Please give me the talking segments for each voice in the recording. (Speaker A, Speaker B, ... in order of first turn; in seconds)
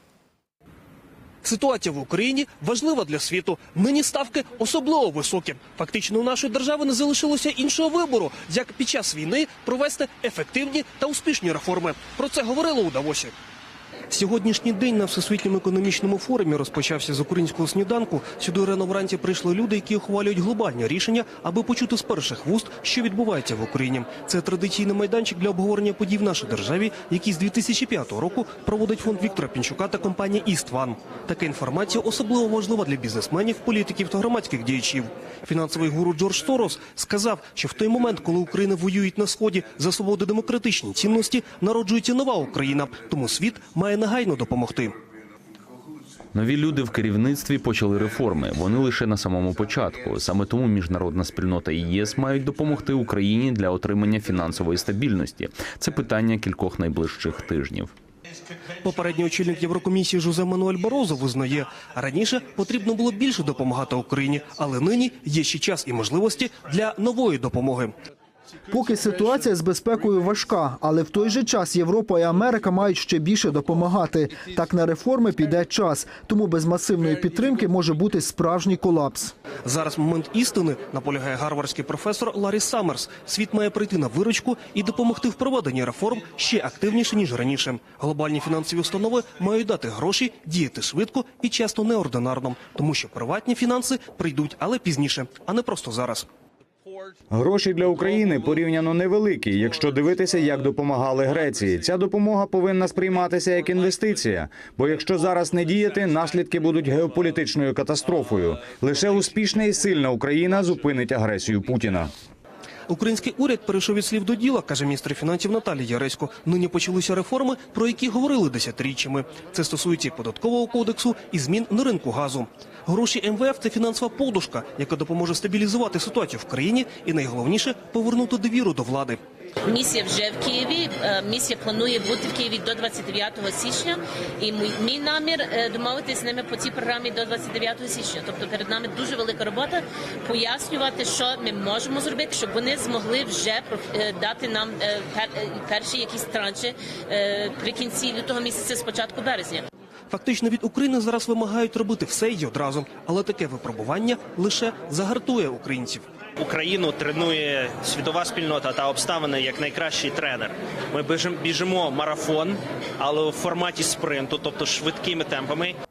Speaker A: 1.4-13.3, 14.1-45.0, 58.8-67.9, 79.6-96.3, 112.9-129.2, 150.1-156.1
Speaker B: 46.3-57.9
Speaker C: 68.7-79.3
Speaker D: 97.3-112.1
Speaker E: 129.7-149.7
Speaker F: 156.4-165.8